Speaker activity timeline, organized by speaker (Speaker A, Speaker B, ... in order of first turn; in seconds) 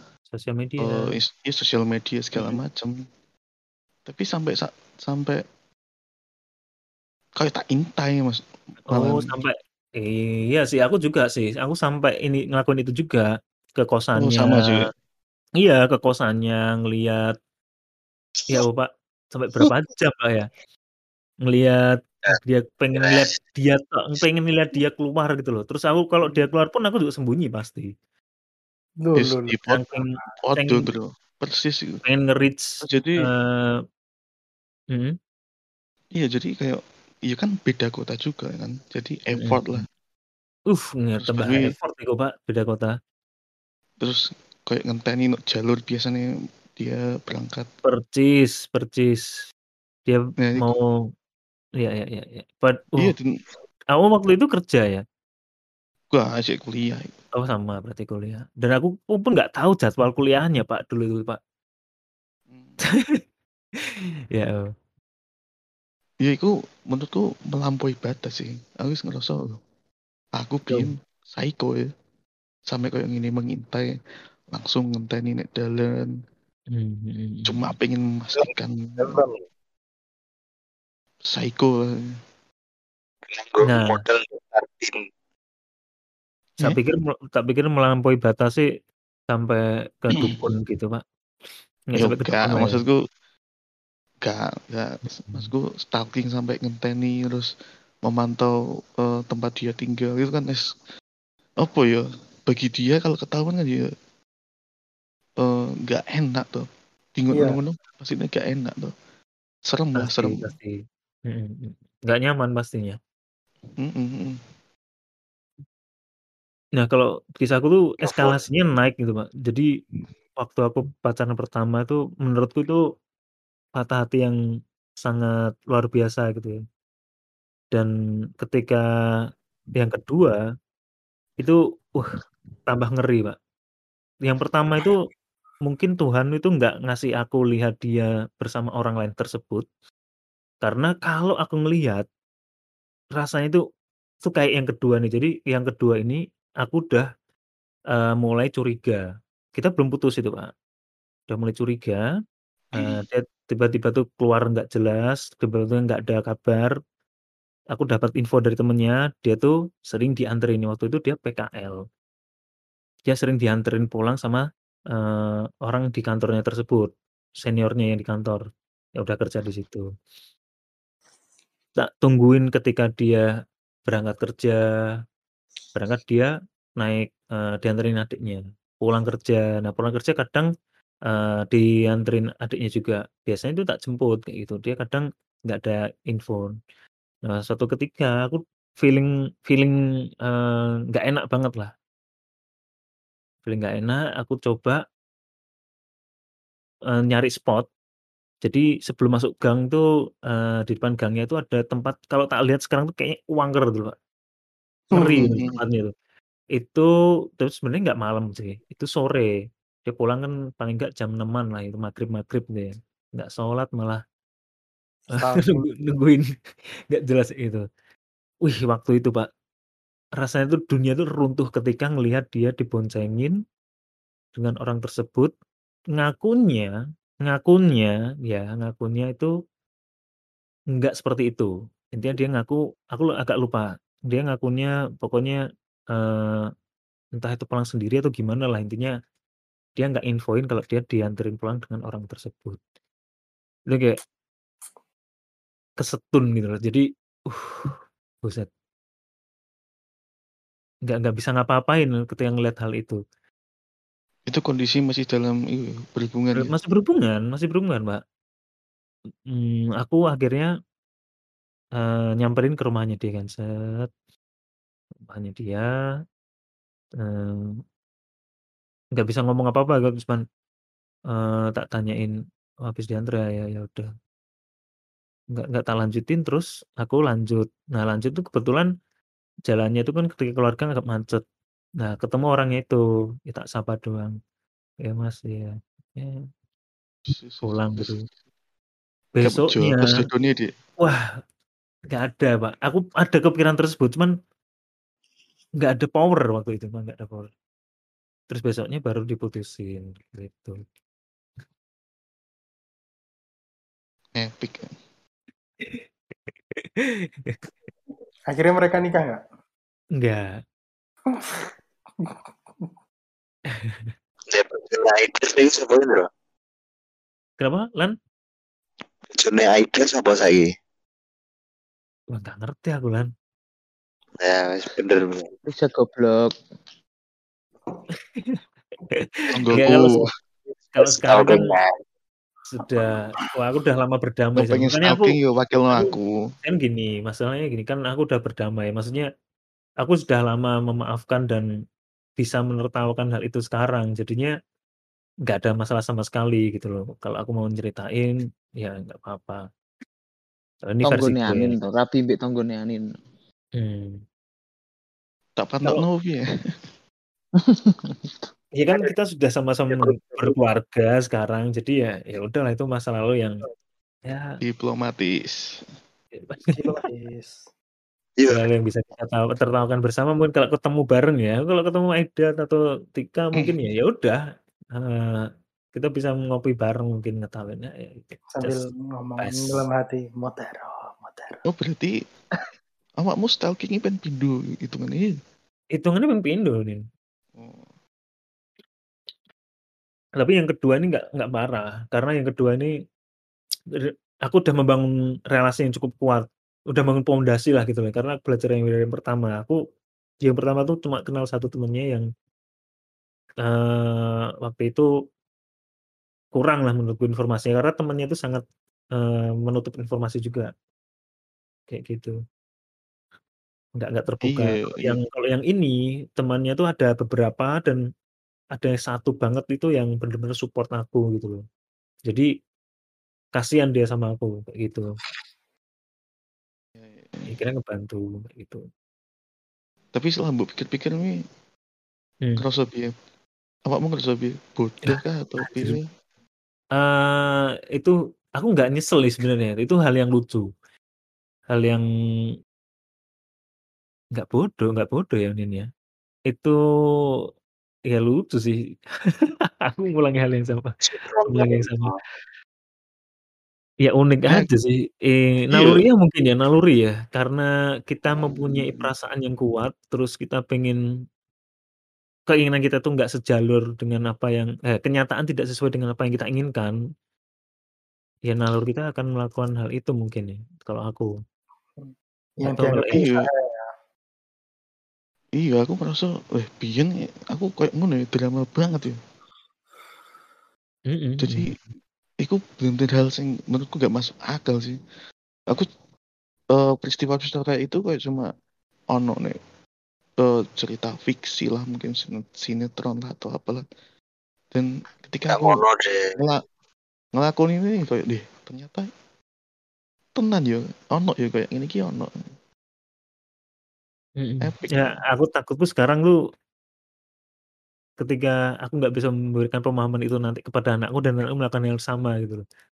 Speaker A: 0.3-1.1, 8.9-13.2, 13.8-14.7, 15.6-17.3, 18.5-20.5, 21.4-21.8, 22.3-27.9, 29.7-30.9, 32.0-33.8, 39.4-39.8, 40.7-42.9, 47.8-49.2, 50.1-50.9, 51.8-53.1, 53.9-55.0, 57.3-61.4, 63.9-64.7, 76.7-77.6, 83.7-84.0, 86.6-88.6, 89.3-91.0, 91.9-92.8, 110.0-113.0, 116.8-119.7, 120.4-122.8, 123.8-124.3, 125.0-126.5, 127.7-128.8, 129.8-130.4, 131.4-132.1, 132.7-133.3, 134.2-134.9, 135.6-139.6, 140.6-142.1, 143.2-143.6, 144.2-147.1, 147.9-149.0, 149.5-150.5, 151.3-152.0, 152.7-156.7, 157.7-161.8, 163.1-166.9, 167.4-168.4, 169.0-169.8, 171.8-173.2, 173.9-174.6, 175.7-180.5, 181.1-186.5, 187.3-189.7, 190.2-191.7, 193.4-194.8, 196.9-197.7, 198.4-203.9, 204.9-205.9, 206.5-209.3, 209.8-214.0, 215.2-216.2, 216.9-217.6, 218.4-219.3, 220.2-223.3, 224.3-225.3, 225.9-226.7, 227.2-229.3, 230.8-235.4, 235.9-236.5, 237.2-238.9, 239.8-242.6, 243.7-244.0, 245.8-248.5, 250.9-253.0, 256.4-258.0, 259.3-260.5, 261.8-263.9, 265.1-265.7, 267.0-267.5, 269.0-270.2, 271.1-272.1, 272.6-273.9, 275.3-278.7, 279.5-281.2, 281.8-284.1, 284.8-286.2, 287.4-288.0, 289.1-289.9, 290.8-291.0, 291.9-294.1, 295.6-297.3, 298.3-300.6, 306.5-307.4, 310.0-310.3, 313.5-313.9, 317.4-317.9, 322.1-323.1, 328.1-328.4, 328.9-330.0, 330.7-331.4, 332.5-335.1, 336.4-339.1, 339.8-341.4, 342.2-344.3, 345.3-349.4, 350.6-351.5, 353.6-354.0, 358.6-363.4, 364.1-364.3, 366.1-366.8, 368.3-374.2, 374.7-378.6, 379.2-379.6, 385.7-386.8, 390.2-392.7, 393.8-399.6, 400.2-402.1, 403.4-404.9, 406.3-408.4, 408.9-410.5, 411.7-412.1, 413.8-417.8, 418.5-421.4, 423.4-424.8, 427.3-428.6, 434.9-435.8, 436.7-440.4, 441.5-441.8, 444.1-445.7, 446.3-446.6, 447.9-448.6, 449.6-450.7, 451.3-451.9, 453.8-460.8, 462.3-466.8, 468.3-471.1, 472.4-473.0, 480.9-481.5, 504.2-506.1, 508.0-512.4
Speaker B: 0.8-3.0, 4.0-5.4, 7.4-9.3, 14.2-14.8, 29.1-29.9, 30.4-32.0, 32.8-33.3, 36.1-39.9, 41.2-41.7, 44.0-47.7, 50.4-50.7, 53.0-53.4, 56.1-57.1, 62.5-62.8, 66.2-69.6, 70.3-71.9, 72.7-73.9, 74.5-76.1, 77.5-79.2, 81.3-82.1, 92.0-93.0, 94.2-97.5, 98.0-100.7, 101.6-103.9, 105.4-108.9, 109.7-110.4, 113.8-114.4, 118.1-118.3, 254.3-256.5, 287.1-287.9, 289.2-290.5, 304.1-304.7, 329.3-330.0, 334.4-336.3, 355.4-356.5, 364.4-365.6, 381.4-382.0, 383.0-385.2, 387.4-387.7, 414.2-415.0, 426.8-427.3, 429.9-431.2, 432.4-432.9, 433.7-435.8, 472.9-473.3, 475.4-479.0, 481.2-481.5, 482.2-484.8, 486.5-488.3, 488.9-489.4, 490.2-493.6, 494.5-495.6, 496.1-496.4, 497.1-498.9, 500.1-502.3, 504.4-504.9
Speaker C: 23.0-23.3, 79.0-79.3, 83.3-85.0, 314.3-316.1, 319.1-320.5, 324.2-325.3, 330.8-331.7, 368.2-368.4, 450.8-451.9, 495.3-496.1
Speaker D: 29.0-29.6, 107.3-107.6, 205.0-205.5, 215.1-215.7, 308.3-309.2, 311.1-311.5, 366.5-367.3, 378.3-381.4, 471.8-473.7
Speaker E: 325.5-326.3, 350.8-352.9, 357.4-358.3